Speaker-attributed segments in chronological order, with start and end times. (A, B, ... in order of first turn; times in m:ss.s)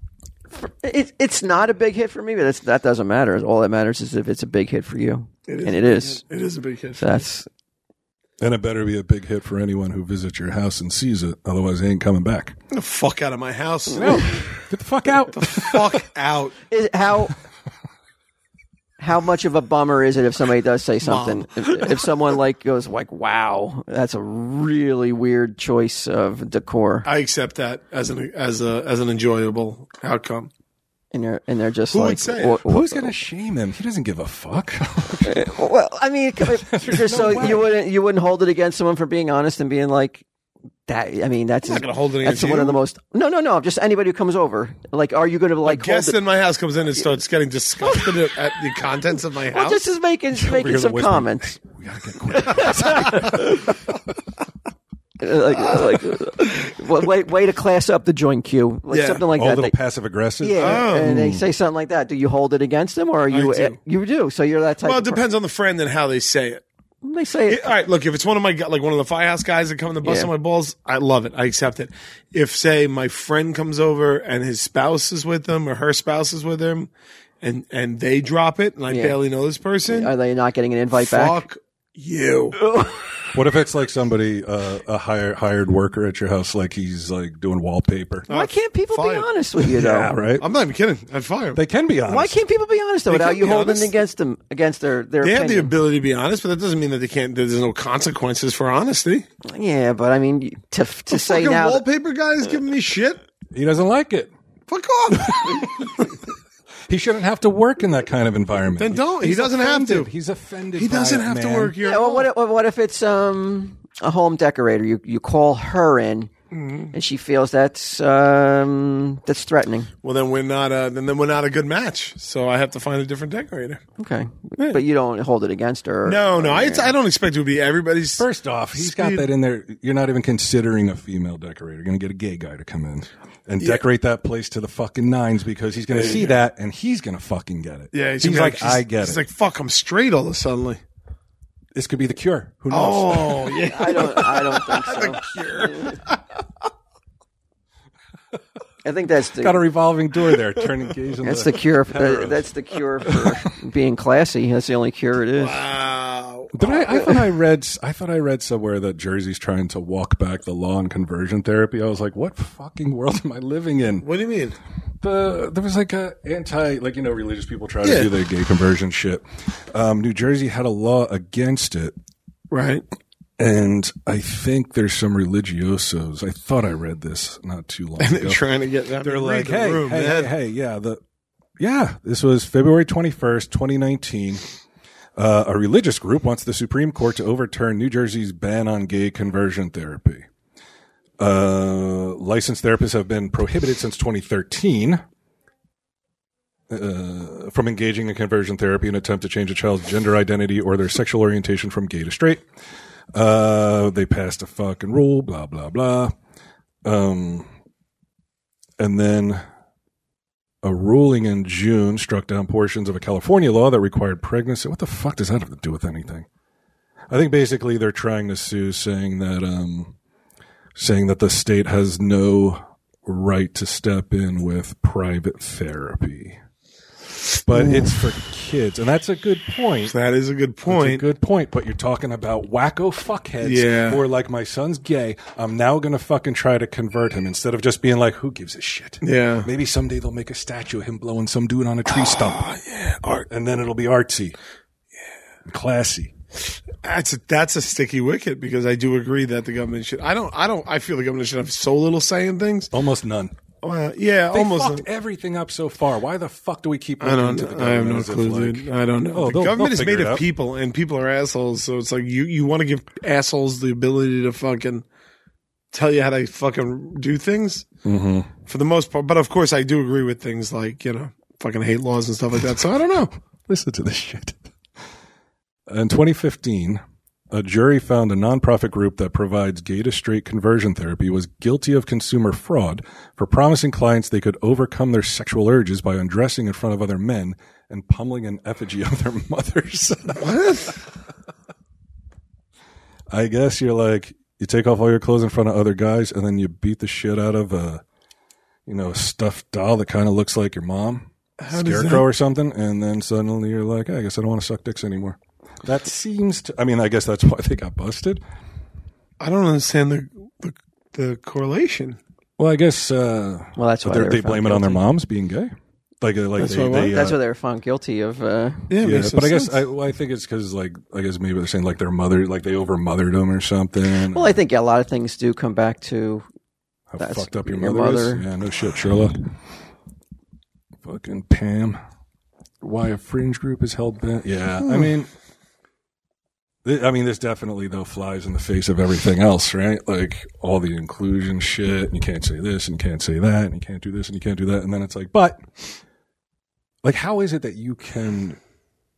0:00.6-0:06.2 A
0:05.5-0:07.2 B
0:07.0-0:07.5 A
0:08.4-0:12.6 C
0:12.7-0:14.6 B
0:13.9-0:16.0 C
0:15.3-0:16.6 B
0:16.7-0:17.4 A
0:19.0-0:27.1 A
0:21.0-0:22.1 B
0:27.0-0:30.5 B
0:31.1-0:33.1 A
0:31.9-0:32.6 B
0:32.6-0:35.4 C
0:35.2-0:40.2 A
0:36.4-0:37.7 C
0:40.9-0:46.2 A
0:41.6-0:42.8 B
0:45.6-0:49.8 B
0:47.8-0:48.2 A
0:49.5-0:51.6 A
0:50.3-0:53.9 C
0:52.4-0:53.8 A
0:55.2-0:59.8 A
0:58.9-0:59.3 B
0:59.3-1:01.4 C
1:00.4-1:05.2 A
1:00.6-1:01.2 B
1:03.3-1:03.8 B
1:04.8-1:06.6 B
1:07.0-1:07.7 A
1:07.5-1:16.9 B
1:10.0-1:10.3 A
1:17.4-1:20.1 B
1:18.9-1:19.2 A
1:19.9-1:21.5 A
1:20.9-1:22.6 B
1:22.6-1:23.1 A
1:23.3-1:28.3 C
1:28.3-1:29.3 B
1:28.3-1:30.3 A
1:29.6-1:30.4 C
1:30.4-1:31.6 B
1:31.6-1:32.4 C
1:32.1-1:35.7 A
1:33.1-1:33.9 B
1:35.2-1:39.3 B
1:39.4-1:41.8 A
1:41.1-1:43.2 B
1:43.5-1:44.3 C
1:44.7-1:46.1 B
1:45.2-1:46.1 C
1:46.9-1:51.8 C
1:48.8-1:50.1 B
1:50.8-1:52.3 B
1:51.8-1:56.3 A
1:56.5-1:56.9 B
1:56.9-1:59.9 A
2:00.0-2:03.8 B
2:04.0-2:07.0 A
2:06.0-2:09.3 B
2:08.2-2:19.2 C
2:15.9-2:16.4 B
2:17.9-2:20.8 B
2:21.7-2:23.6 C
2:22.7-2:26.2 B
2:23.7-2:26.0 A
2:28.8-2:29.7 A
2:29.4-2:32.5 C
2:31.2-2:35.6 A
2:33.0-2:33.4 C
2:35.4-2:37.2 B
2:36.5-2:44.1 C
2:44.0-2:44.6 B
2:45.0-2:52.0 C
2:47.8-2:48.1 B
2:52.5-2:52.8 B
2:53.4-2:58.4 C
2:58.0-3:00.3 B
2:59.0-3:01.0 C
3:01.6-3:04.4 C
3:05.2-3:10.3 C
3:11.2-3:15.0 C
3:16.7-3:22.5 C
3:23.1-3:26.1 C
3:26.8-3:27.5 C
3:28.8-3:29.4 C
3:30.6-3:36.3 C
3:37.1-3:40.0 C
3:40.8-3:46.4 C
3:47.4-3:50.0 C
3:47.5-3:48.1 B
3:49.9-3:51.0 B
3:50.7-4:02.4 C
3:53.4-3:54.0 B
3:59.0-3:59.5 B
4:01.9-4:03.3 B
4:03.3-4:04.4 C
4:05.5-4:06.1 C
4:06.8-4:12.7 B
4:12.7-4:13.3 C
4:13.6-4:14.9 B
4:14.3-4:20.2 C
4:17.0-4:24.8 B
4:25.7-4:27.7 B
4:27.8-4:28.3 C
4:28.5-4:33.1 B
4:33.5-4:34.5 C
4:35.7-4:50.4 C
4:50.2-4:50.8 B
4:53.1-4:57.8 C
4:58.7-5:08.2 C
5:01.4-5:02.1 B
5:09.2-5:12.0 B
5:12.4-5:17.2 C
5:13.6-5:14.8 A
5:16.4-5:17.0 B
5:16.7-5:18.7 A
5:18.7-5:19.6 B
5:18.8-5:24.4 C
5:24.1-5:26.3 A
5:26.9-5:29.3 C
5:27.0-5:28.3 A
5:30.8-5:31.8 C
5:32.6-5:35.1 C
5:36.6-5:45.8 C
5:46.8-5:48.4 C